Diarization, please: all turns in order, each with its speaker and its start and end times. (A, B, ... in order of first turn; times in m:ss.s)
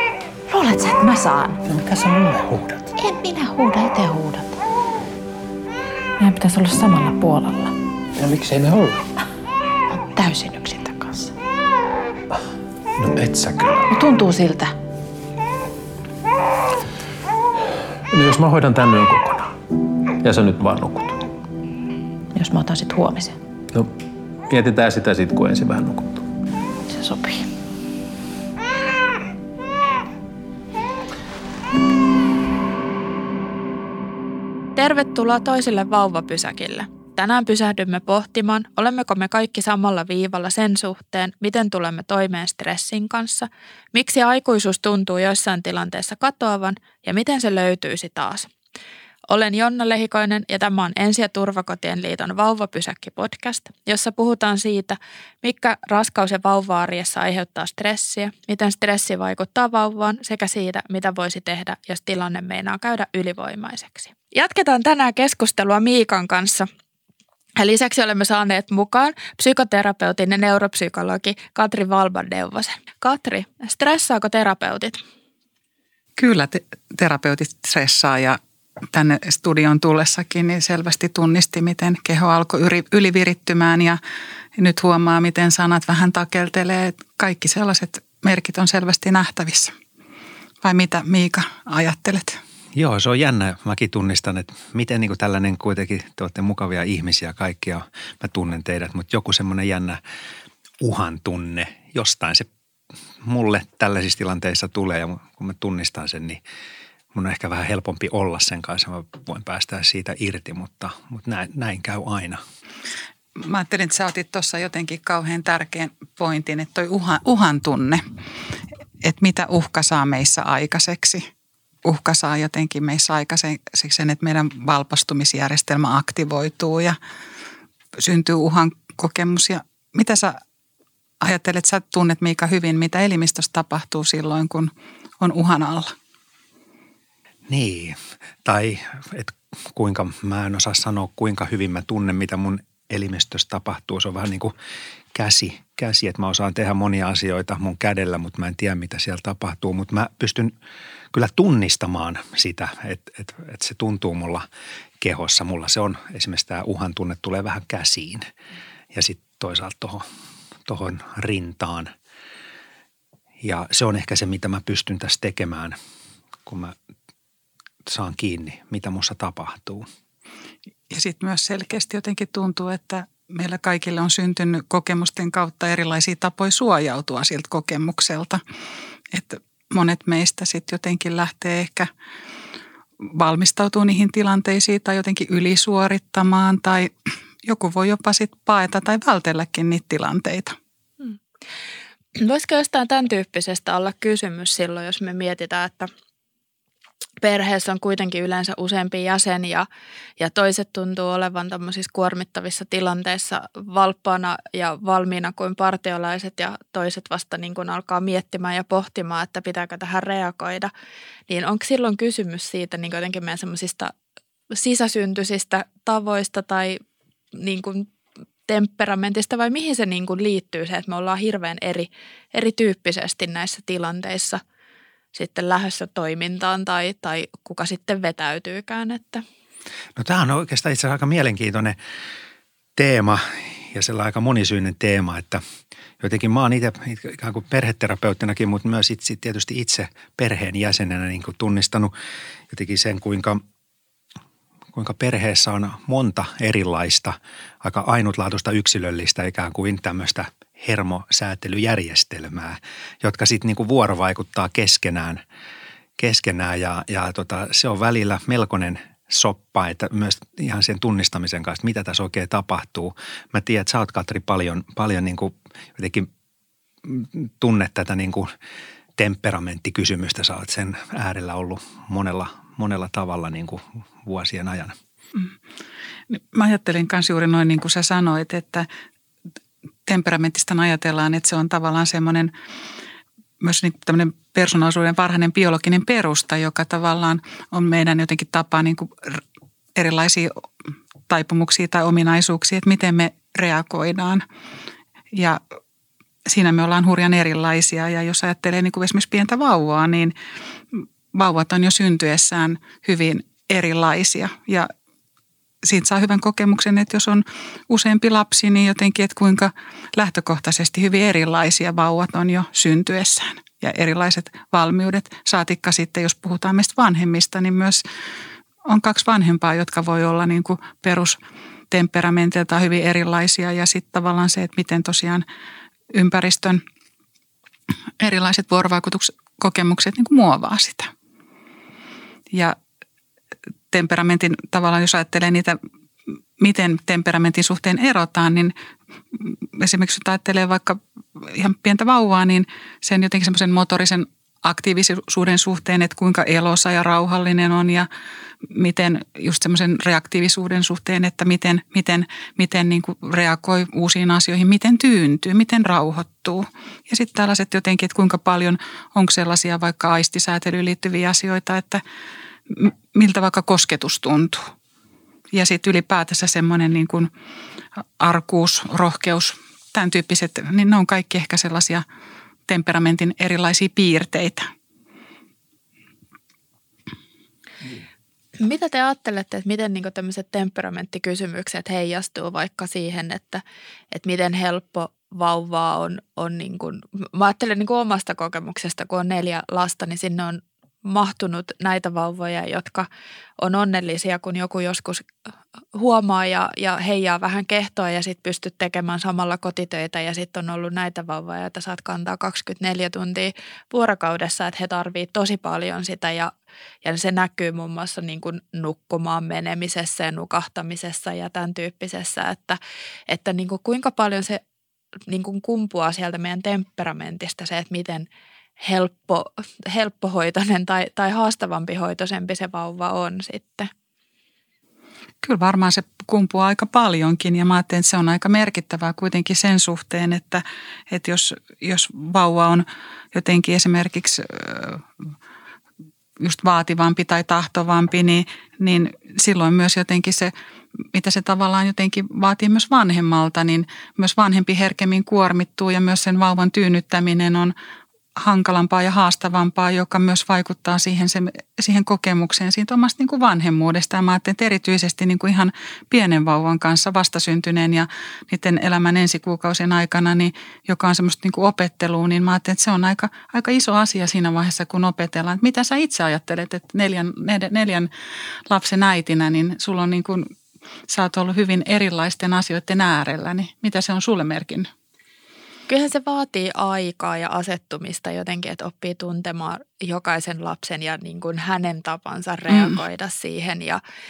0:00.5-0:01.6 A
0:01.6-0:02.9 B
0:03.0-0:04.6 A
0:06.2-0:07.7 A
0:08.2-0:09.0 B
0:09.9-0:11.3 A
0:13.0-0:13.9 B
0:13.9-0:14.7 A
0:18.1-0:19.5 B
0:20.2-0:21.2 B
0:22.3-0:23.4 A
0:24.5-0:26.2 B
0:26.9-0:27.5 A
0:34.8-0:48.5 C
0:49.3-1:06.7 C
1:07.6-1:15.0 C
1:16.2-1:18.4 D
1:18.9-1:24.0 D
1:24.6-1:29.7 D
1:30.6-1:32.4 D
1:32.7-1:40.0 E
1:40.8-1:42.5 E
1:43.2-1:46.4 E
1:47.1-1:52.4 E
1:53.4-1:58.0 D
1:59.0-2:01.2 D
2:01.8-2:07.0 D
2:08.0-2:10.4 D
2:11.2-2:15.9 D
2:17.5-2:24.5 E
2:25.1-2:30.5 E
2:31.1-2:34.4 E
2:35.0-2:38.2 E
2:38.9-2:40.0 E
2:40.6-2:41.9 E
2:43.4-2:45.8 E
2:46.4-2:46.7 E
2:47.8-2:49.8 E
2:50.9-2:58.4 D
2:59.1-3:01.9 D
3:03.0-3:10.6 D
3:12.1-3:15.9 C
3:17.2-3:19.7 C
3:20.2-3:30.7 C
3:31.3-3:33.9 C
3:34.5-3:36.8 C
3:37.3-3:37.9 C
3:38.5-3:44.4 C
3:45.1-3:49.2 C
3:50.0-3:51.8 E
3:52.8-3:55.4 E
3:56.0-4:01.9 E
4:02.5-4:03.4 E
4:04.7-4:15.2 E
4:16.0-4:26.1 E
4:26.8-4:28.3 E
4:29.0-4:34.8 E
4:36.1-4:38.7 D
4:39.8-4:42.3 D
4:43.4-4:49.2 D
4:49.8-4:50.4 D
4:51.1-4:54.2 D
4:55.1-4:55.4 D
4:56.3-5:00.1 D
5:00.7-5:04.7 D
5:05.6-5:17.8 D
5:18.6-5:21.2 D
5:21.7-5:25.2 D
5:25.9-5:26.6 D
5:28.0-5:30.9 D
5:33.7-5:35.6 D
5:36.4-5:38.5 D
5:39.1-5:47.9 D
5:48.4-6:01.8 D
6:02.5-6:04.5 D
6:05.3-6:07.1 D
6:08.0-6:11.8 D
6:12.5-6:14.5 D
6:18.4-6:32.9 C
6:33.4-6:35.1 C
6:35.7-6:46.3 C
6:46.8-6:54.4 C
6:55.1-6:58.1 C
6:58.6-7:03.7 C
7:05.2-7:14.8 D
7:16.2-7:20.3 D
7:20.9-7:27.5 D
7:28.2-7:47.9 D
7:48.5-7:50.3 D
7:50.9-7:54.7 D
7:55.7-8:03.8 C
8:02.5-8:02.7 D